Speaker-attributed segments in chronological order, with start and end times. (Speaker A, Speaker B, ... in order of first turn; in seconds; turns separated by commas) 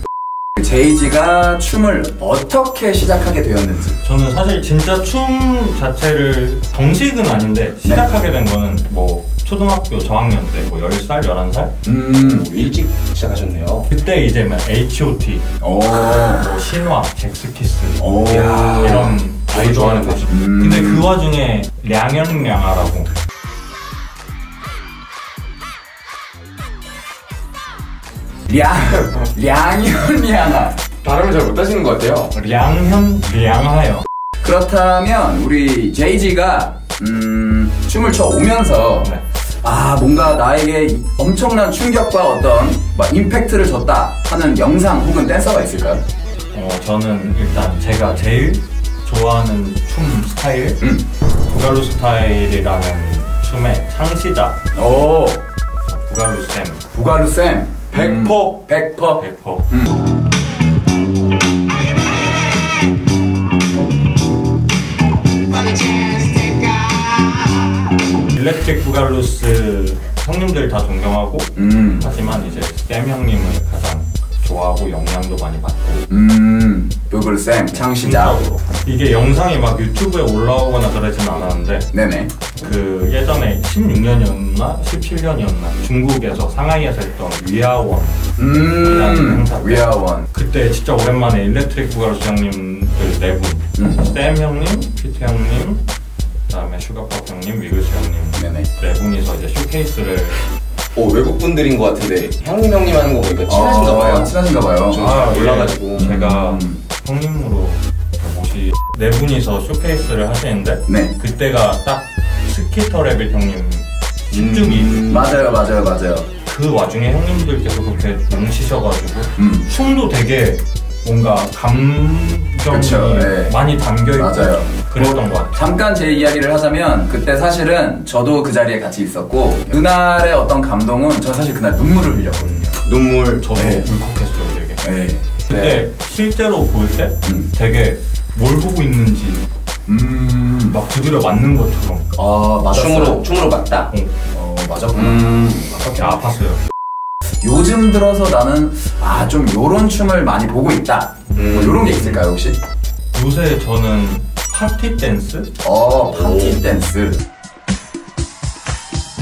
Speaker A: 0.6-4.0, Speaker B: 4.0-11.7, Speaker A: 7.8-8.1, Speaker A: 11.8-12.5, Speaker C: 12.1-13.9, Speaker B: 13.9-15.5, Speaker A: 15.6-16.5, Speaker B: 16.2-18.0, Speaker A: 18.0-19.1, Speaker C: 18.3-20.3, Speaker B: 18.7-23.1, Speaker A: 20.3-21.1, Speaker A: 28.5-30.8, Speaker C: 31.0-32.3, Speaker B: 32.3-34.0, Speaker A: 34.4-46.0, Speaker B: 46.5-50.8, Speaker B: 51.5-54.6, Speaker A: 54.7-55.4, Speaker B: 55.9-56.8, Speaker A: 56.9-60.0, Speaker C: 57.9-58.6, Speaker B: 59.2-59.7, Speaker C: 65.8-66.9, Speaker B: 68.2-76.1, Speaker A: 71.5-72.1, Speaker A: 76.1-78.4, Speaker B: 77.8-81.9, Speaker A: 81.9-82.6, Speaker B: 82.6-88.2, Speaker A: 88.4-90.3, Speaker B: 88.7-95.8, Speaker A: 93.8-94.0, Speaker B: 96.5-100.4, Speaker A: 98.3-98.7, Speaker C: 100.9-104.3, Speaker A: 103.5-105.0, Speaker C: 104.9-106.2, Speaker B: 104.9-115.0, Speaker A: 106.0-106.8, Speaker A: 110.8-111.1, Speaker C: 114.3-115.3, Speaker A: 115.0-116.3, Speaker B: 116.5-125.9, Speaker A: 119.4-119.7, Speaker A: 122.7-123.6, Speaker A: 124.1-132.8, Speaker C: 132.4-133.5, Speaker B: 133.4-134.8, Speaker A: 133.5-133.9, Speaker A: 134.8-135.4, Speaker B: 135.4-139.4, Speaker A: 137.2-137.5, Speaker A: 139.9-140.8, Speaker B: 140.7-142.1, Speaker A: 142.1-143.2, Speaker C: 142.7-143.9, Speaker A: 144.3-146.2, Speaker C: 144.9-145.6, Speaker B: 145.9-146.6, Speaker A: 147.4-152.6, Speaker B: 151.3-152.2, Speaker C: 151.3-152.0, Speaker B: 153.1-155.5, Speaker A: 155.6-157.2, Speaker C: 156.1-156.6